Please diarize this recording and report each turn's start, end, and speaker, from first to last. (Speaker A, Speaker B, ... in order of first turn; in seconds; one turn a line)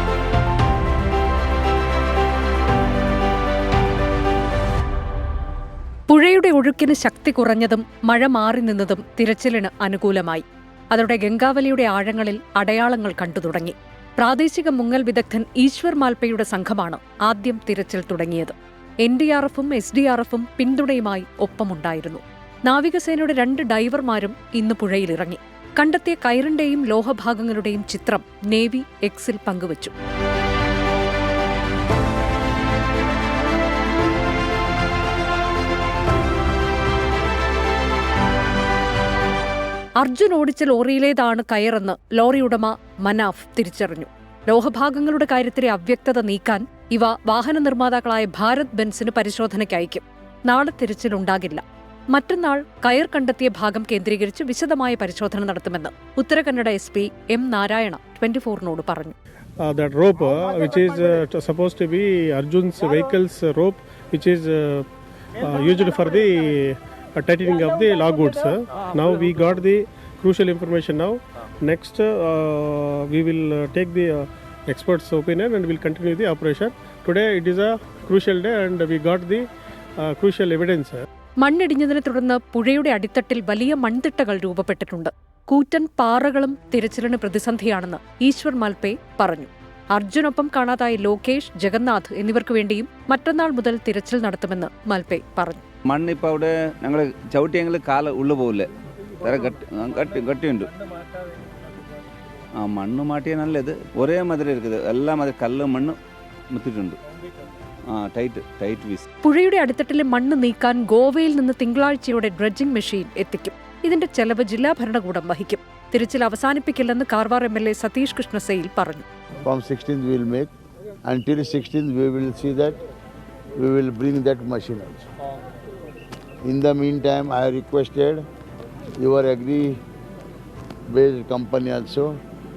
Speaker A: 6.1-29.9
Speaker A: 40.0-59.1
Speaker B: 59.6-79.5
Speaker B: 80.0-81.0
Speaker A: 81.4-95.6
Speaker C: 95.8-100.7
Speaker C: 102.5-106.0
Speaker C: 106.5-107.0
Speaker C: 107.9-109.0
Speaker A: 109.2-119.0
Speaker D: 119.4-120.5
Speaker D: 121.0-122.8
Speaker D: 123.6-125.1
Speaker D: 126.4-128.2
Speaker D: 129.0-129.8
Speaker D: 130.9-132.1